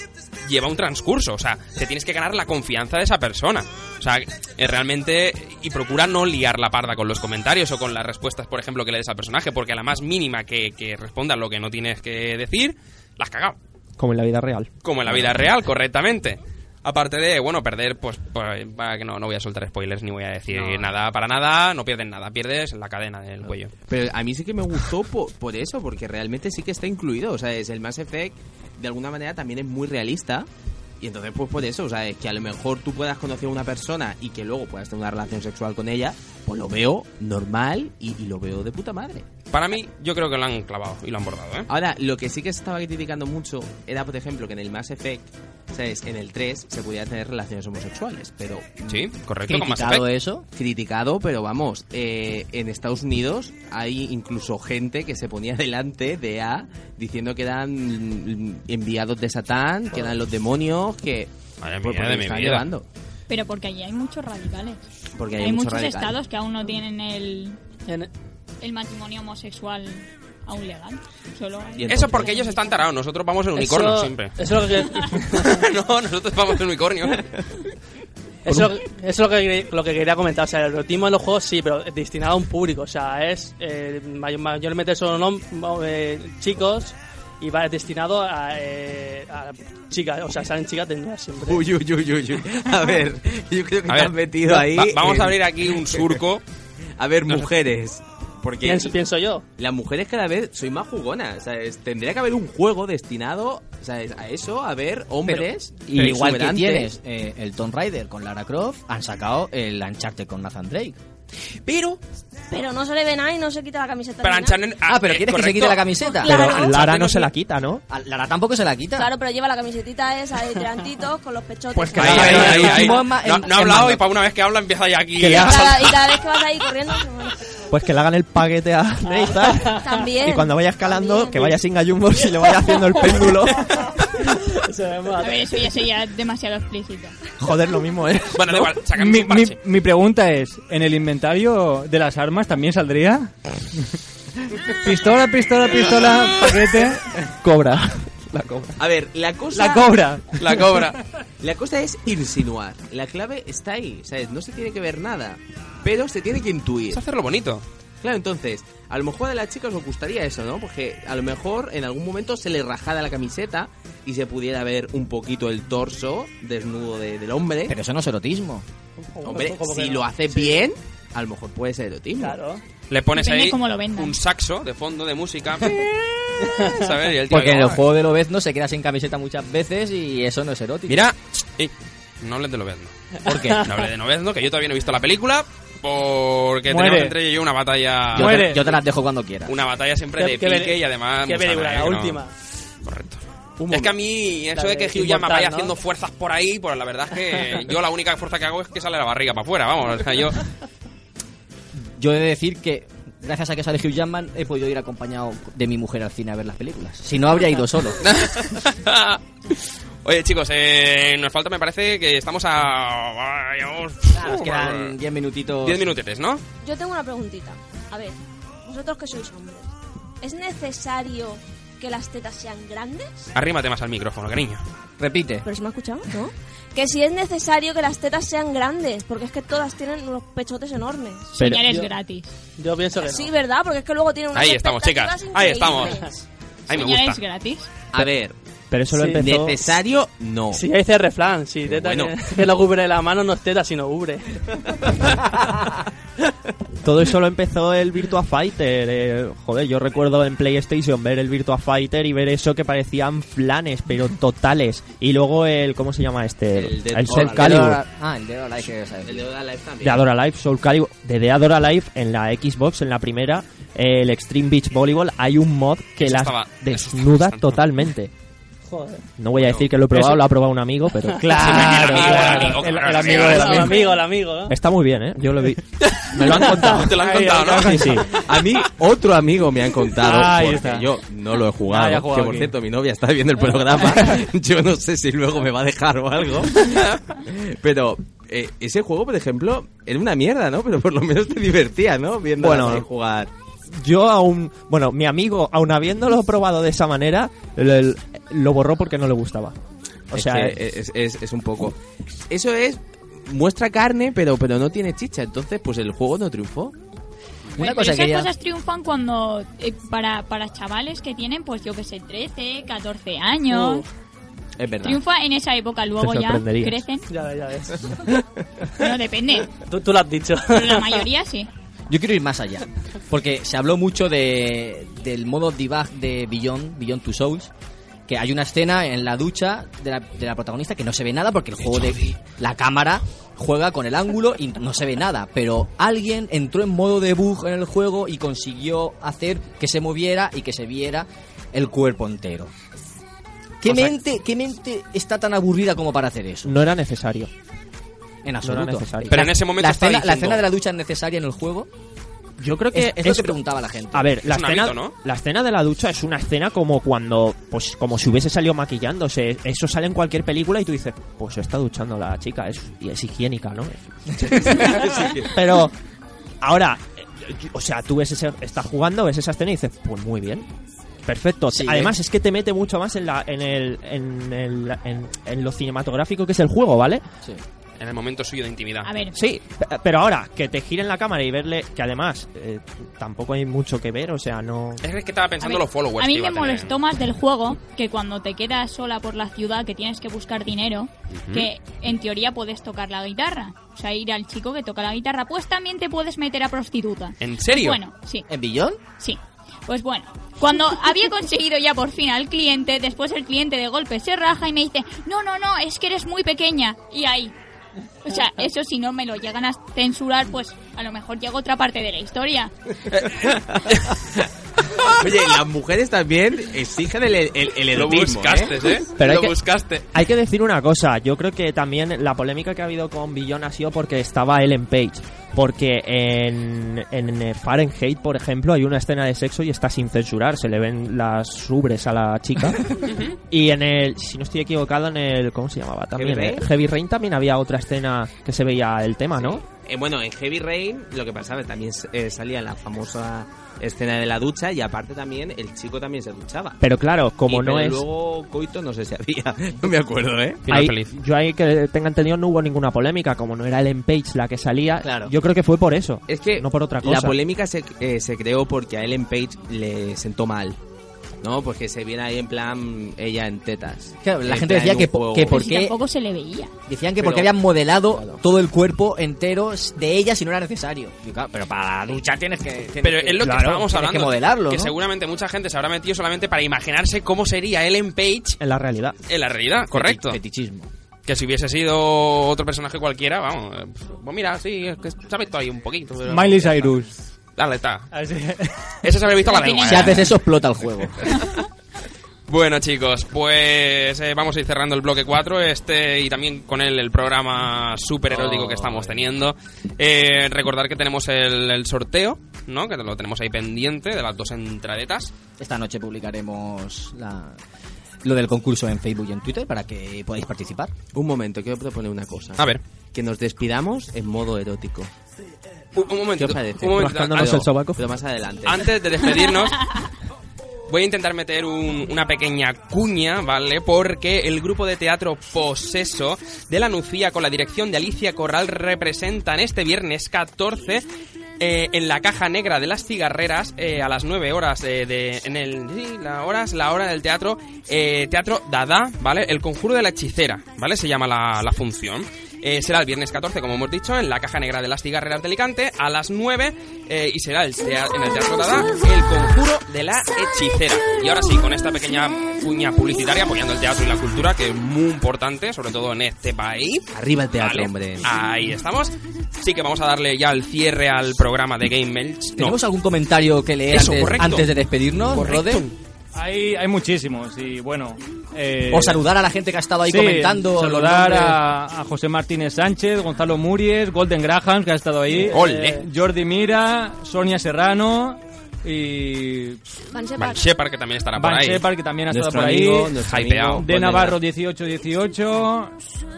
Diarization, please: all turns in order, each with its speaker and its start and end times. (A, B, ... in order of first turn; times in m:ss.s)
0:00.4-0:13.6 A
0:14.0-0:14.7 B
0:14.8-0:23.7 A
0:15.1-0:15.4 C
0:20.5-0:20.9 C
0:23.5-0:30.5 C
0:31.0-0:39.3 C
0:39.5-0:41.7 A
0:41.7-0:49.1 C
0:48.9-0:50.0 A
0:49.5-0:50.5 D
0:50.5-1:01.3 C
1:01.6-1:02.7 A
1:01.8-1:02.9 C
1:03.3-1:04.8 E
1:05.2-1:06.2 C
1:05.4-1:07.6 E
1:08.6-1:12.6 E
1:11.8-1:12.4 C
1:11.9-1:14.4 A
1:13.6-1:15.6 F
1:15.3-1:17.4 A
1:18.4-1:31.6 F
1:31.4-1:36.2 C
1:33.9-1:36.4 A
1:37.0-1:39.0 C
1:38.6-1:39.4 F
1:39.6-1:46.9 C
1:45.2-1:51.0 D
1:51.6-1:52.0 A
1:52.5-1:54.6 G
1:54.2-1:57.3 A
1:54.9-1:56.4 D
1:56.2-1:57.8 B
1:56.3-1:56.7 G
1:57.9-1:59.1 D
1:59.0-2:02.2 G
2:01.8-2:03.0 B
2:01.9-2:06.0 A
2:02.0-2:04.0 D
2:05.2-2:05.8 B
2:05.4-2:07.4 G
2:07.7-2:14.0 B
2:09.1-2:10.0 F
2:09.8-2:11.6 G
2:14.2-2:15.6 F
2:15.2-2:17.1 E
2:17.4-2:18.8 B
2:18.3-2:19.6 A
2:19.0-2:23.9 H
2:24.5-2:27.2 H
2:27.4-2:28.8 B
2:28.8-2:30.0 C
2:29.5-2:30.4 H
2:30.4-2:31.0 A
2:31.4-2:37.0 C
2:36.9-2:37.6 A
2:38.0-2:47.8 C
2:47.7-2:48.6 D
2:49.0-2:50.7 F
2:49.2-2:52.4 C
2:52.2-2:52.6 F
2:52.9-2:55.8 A
2:53.1-2:54.2 E
2:56.5-2:57.8 A
2:57.3-3:01.0 D
3:00.9-3:02.9 A
3:03.2-3:03.6 D
3:03.5-3:08.6 A
3:06.7-3:07.2 H
3:08.1-3:09.5 D
3:08.2-3:08.6 H
3:09.5-3:12.2 A
3:10.2-3:12.3 F
3:12.8-3:20.5 A
3:13.6-3:13.9 C
3:14.6-3:15.8 F
3:21.8-3:28.0 D
3:28.0-3:34.9 A
3:34.1-3:35.9 D
3:35.6-3:36.4 A
3:36.6-3:39.7 G
3:40.2-3:43.3 G
3:43.4-3:44.6 A
3:45.0-3:45.5 D
3:45.4-3:51.4 G
3:51.4-3:52.4 E
3:51.4-3:51.6 B
3:51.6-3:51.9 F
3:52.6-3:53.4 F
3:53.0-3:56.3 G
3:54.3-3:56.0 A
3:56.7-3:57.2 A
3:56.7-3:57.7 E
3:57.9-3:58.4 C
3:58.7-3:59.7 B
3:58.9-3:59.2 F
3:59.1-4:00.6 C
4:00.5-4:05.1 F
4:01.6-4:02.2 C
4:06.8-4:17.8 B
4:16.5-4:17.7 C
4:17.1-4:19.3 D
4:19.0-4:20.0 C
4:19.8-4:28.1 B
4:26.0-4:27.6 A
4:28.7-4:29.0 F
4:29.2-4:31.6 B
4:31.2-4:33.8 H
4:31.3-4:34.5 F
4:31.4-4:33.7 A
4:34.5-4:36.9 B
4:35.8-4:38.0 A
4:36.4-4:38.0 F
4:37.0-4:38.0 H
4:37.6-4:38.1 B
4:38.1-4:53.3 C
4:40.0-4:40.9 H
4:41.7-4:42.5 H
4:52.4-4:52.9 B
4:53.7-4:59.6 B
5:00.1-5:00.6 B
5:00.1-5:01.8 C
5:02.3-5:06.8 C
5:07.6-5:08.3 D
5:07.6-5:13.9 E
5:13.5-5:13.8 F
5:14.6-5:15.0 D
5:14.8-5:17.1 E
5:16.0-5:16.8 B
5:17.1-5:18.1 F
5:18.8-5:19.6 E
5:19.6-5:21.1 F
5:20.5-5:21.5 E
5:21.9-5:27.5 D
5:28.1-5:42.5 D
5:31.7-5:32.1 A
5:43.6-5:46.6 D
5:46.5-5:47.3 B
5:48.2-5:51.7 D
5:48.4-5:49.3 B
5:49.1-5:50.4 A
5:52.4-5:53.4 B
5:52.7-5:54.1 D
5:53.9-6:04.7 B
5:54.3-5:54.9 A
6:04.4-6:05.3 C
6:05.3-6:05.7 B
6:06.4-6:10.5 B
6:11.1-6:17.0 B
6:11.5-6:12.0 D
6:17.8-6:18.9 A
6:18.8-6:19.2 E
6:19.1-6:24.8 B
6:24.8-6:26.8 A
6:25.4-6:38.3 E
6:31.1-6:31.5 A
6:37.2-6:37.8 A
6:38.3-6:38.8 D
6:39.0-6:47.3 E
6:48.0-6:52.5 E
6:52.9-6:58.7 C
6:57.7-6:59.9 A
6:59.0-6:59.4 B
6:59.9-7:19.4 B
7:12.9-7:13.2 A
7:16.0-7:16.5 C
7:19.2-7:26.6 C
7:26.6-7:27.8 B
7:27.3-7:30.4 C
7:30.4-7:30.9 A
7:30.5-7:37.2 B
7:34.8-7:35.1 D
7:36.1-7:40.6 C
7:41.2-7:45.4 C
7:44.0-7:45.8 D
7:45.3-7:46.5 E
7:46.7-7:54.7 D
7:47.0-7:48.2 C
7:52.8-7:58.4 A
7:53.2-7:53.7 B
7:58.4-7:59.0 B
7:59.1-8:00.2 A
7:59.7-8:00.7 D
8:01.1-8:06.4 A
8:06.1-8:06.9 H
8:07.4-8:07.9 A
8:07.9-8:08.8 H
8:08.8-8:10.1 A
8:09.3-8:10.1 E
8:09.7-8:11.0 D
8:11.1-8:11.4 A
8:12.3-8:25.1 A
8:18.1-8:19.0 D
8:25.4-8:27.4 D
8:28.0-8:30.7 D
8:30.9-8:34.9 C
8:35.7-8:37.4 A
8:36.2-8:38.7 C
8:36.2-8:37.8 B
8:38.4-8:39.8 A
8:40.7-8:50.8 A
8:51.4-9:22.6 A
9:17.0-9:18.1 C
9:22.4-9:25.6 D
9:23.7-9:24.5 A
9:25.1-9:25.8 A
9:26.1-9:29.0 H
9:28.7-9:31.4 D
9:29.9-9:39.6 H
9:35.1-9:35.9 F
9:35.3-9:35.8 A
9:39.9-9:40.4 G
9:40.2-9:41.6 A
9:41.2-9:43.0 H
9:42.1-9:44.2 C
9:43.0-9:43.7 A
9:43.6-9:45.8 H